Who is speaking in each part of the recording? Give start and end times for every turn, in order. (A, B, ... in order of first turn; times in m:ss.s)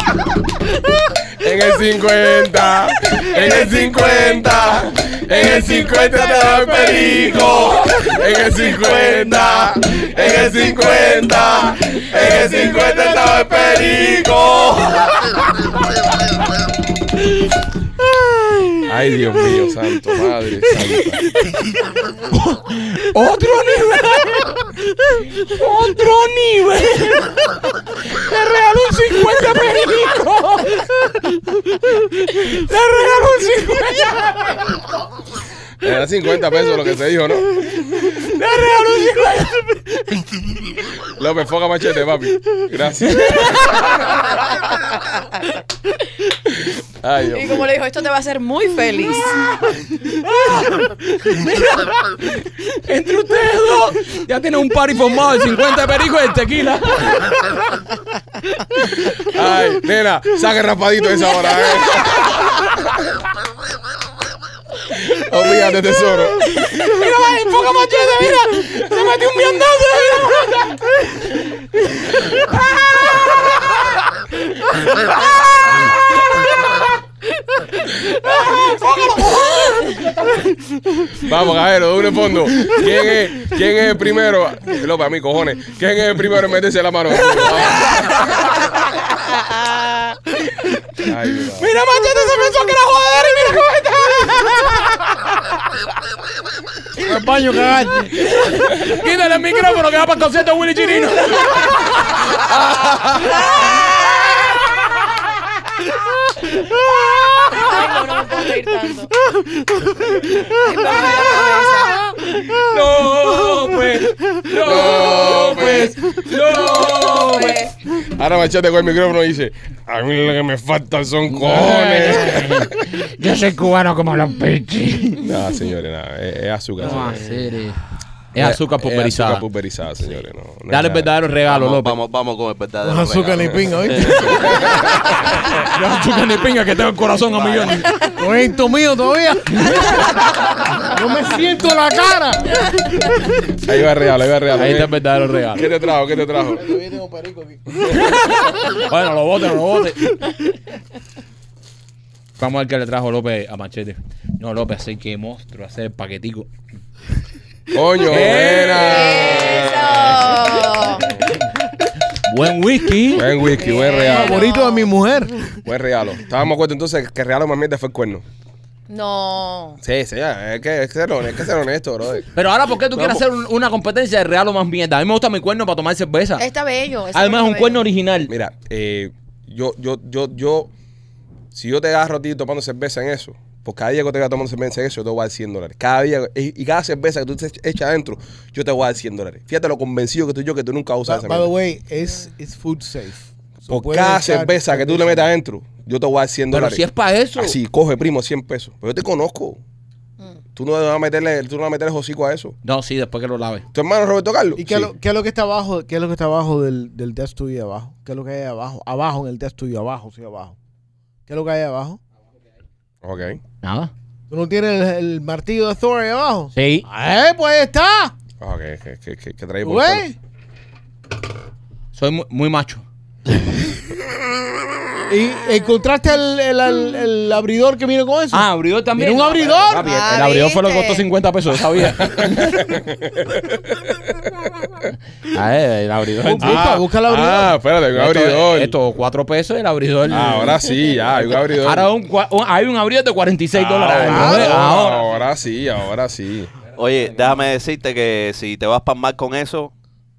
0:01.4-0:13.0 A
0:03.3-0:15.3 B
0:18.8-0:21.3 A
0:22.3-0:34.8 C
0:35.8-0:37.9 A
0:37.7-0:40.6 C
0:41.0-0:43.8 A
0:43.1-0:43.9 C
0:44.4-0:45.5 D
0:46.7-0:47.7 A
0:47.3-0:49.4 D
0:49.9-0:57.8 C
0:58.8-0:59.2 C
0:59.2-1:02.6 A
1:01.9-1:02.6 C
1:05.0-1:06.4 A
1:06.4-1:12.6 C
1:17.9-1:20.4 C
1:21.2-1:28.4 A
1:29.5-1:29.9 C
1:31.0-1:31.7 A
1:31.6-1:35.0 C
1:37.0-1:38.3 E
1:38.2-1:45.3 C
1:47.0-1:48.2 C
1:47.5-1:49.1 D
1:50.1-1:51.1 C
1:50.5-1:52.1 D
1:52.1-1:57.7 C
1:54.6-1:56.0 A
1:57.2-1:57.7 D
1:58.0-2:03.0 A
2:01.3-2:05.3 C
2:05.2-2:07.3 A
2:06.8-2:07.8 C
2:07.0-2:07.4 B
2:08.3-2:09.4 C
2:08.4-2:11.1 A
2:10.7-2:12.0 C
2:11.5-2:14.4 B
2:12.8-2:14.6 E
2:14.2-2:15.2 A
2:15.4-2:18.0 C
2:17.3-2:17.8 B
2:18.1-2:20.1 E
2:19.6-2:20.0 C
2:20.8-2:23.0 E
2:23.6-2:25.0 A
2:24.6-2:25.7 C
2:25.5-2:26.6 A
2:26.4-2:28.1 E
2:27.8-2:28.2 A
2:28.0-2:30.3 C
2:32.4-2:36.5 C
2:37.7-2:41.3 A
2:38.0-2:39.6 C
2:38.7-2:41.1 D
2:42.1-2:43.4 C
2:43.1-2:44.5 A
2:43.5-2:44.9 D
2:43.9-2:45.4 E
2:45.6-2:48.2 A
2:48.9-2:49.8 D
2:49.8-2:52.3 A
2:52.4-2:56.5 C
2:52.9-2:53.2 B
2:56.4-2:57.8 D
2:57.1-2:58.3 C
2:58.3-3:00.7 A
3:01.5-3:11.5 A
3:11.1-3:15.3 E
3:13.7-3:19.6 A
3:16.5-3:17.6 C
3:20.6-3:22.6 A
3:22.6-3:23.7 C
3:23.7-3:24.9 A
3:24.6-3:30.6 E
3:31.3-3:32.0 E
3:33.0-3:33.4 A
3:33.6-3:33.9 C
3:34.3-3:38.1 E
3:36.6-3:36.9 C
3:38.4-3:40.1 A
3:39.6-3:40.2 E
3:41.9-3:42.8 C
3:45.1-3:50.0 E
3:48.3-3:52.8 C
3:49.8-3:51.1 D
3:52.0-3:54.9 A
3:55.3-3:56.8 C
3:56.2-3:57.5 E
3:56.4-3:58.7 A
3:57.9-4:05.1 C
4:00.1-4:01.9 A
4:03.6-4:06.5 A
4:04.1-4:04.9 E
4:06.8-4:09.7 B